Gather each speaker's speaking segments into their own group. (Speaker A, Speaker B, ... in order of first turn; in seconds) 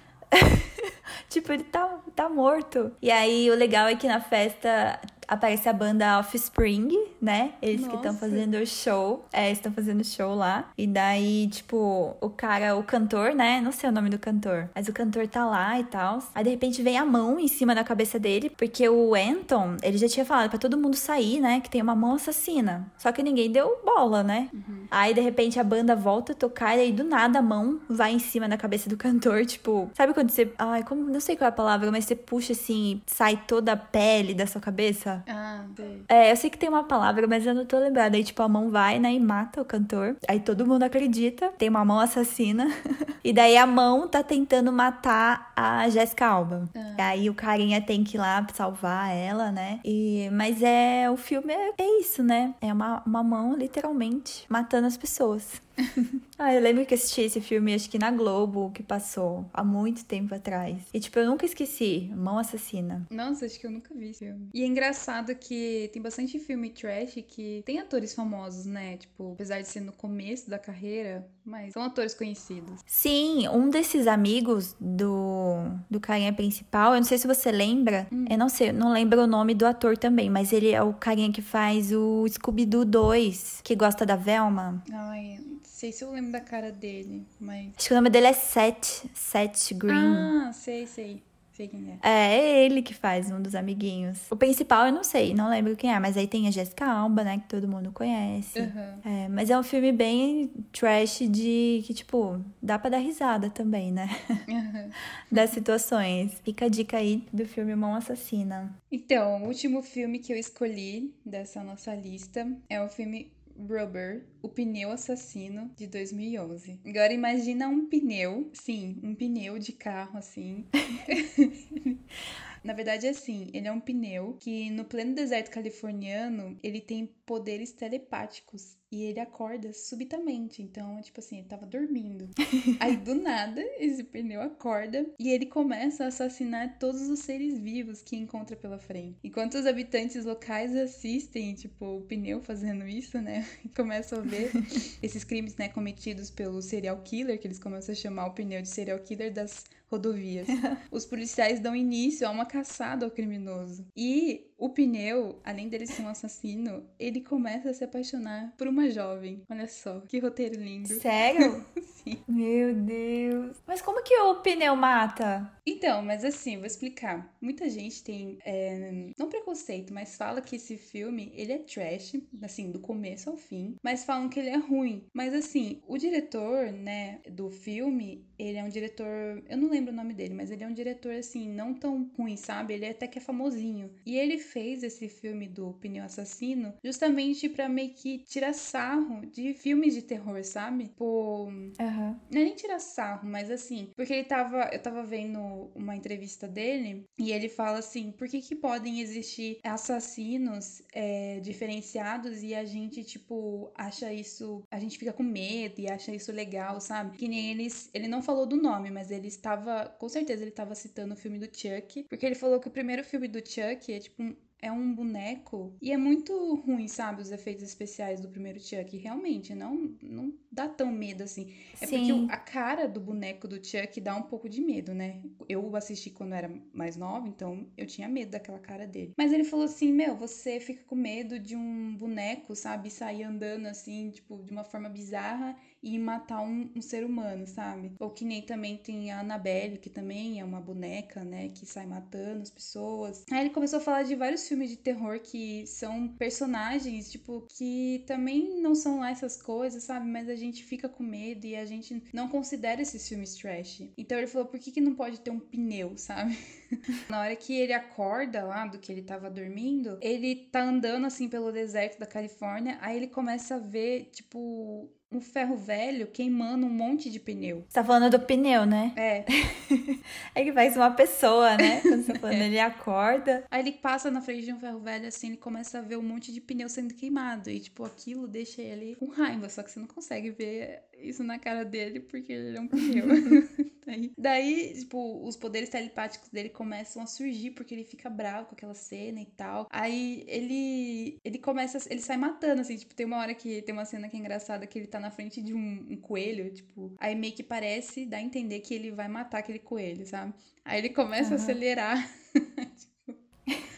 Speaker A: 0.3-35.2, 36.1-63.1, 72.9-84.8, 87.8-90.3, 92.0-104.5, 105.3-108.8, 160.8-161.6, 162.3-165.5, 191.8-192.2, 221.8-222.3, 267.7-273.4, 301.2-301.6
Speaker B: 7.7-8.5, 24.5-24.9, 35.3-36.1, 46.7-47.3, 63.1-72.8, 78.1-78.4, 84.9-87.8, 89.9-92.0, 98.5-99.0, 104.5-105.5, 108.9-122.0, 122.6-162.2, 165.7-191.8, 192.3-267.7, 268.9-269.3, 271.6-272.5, 273.5-303.2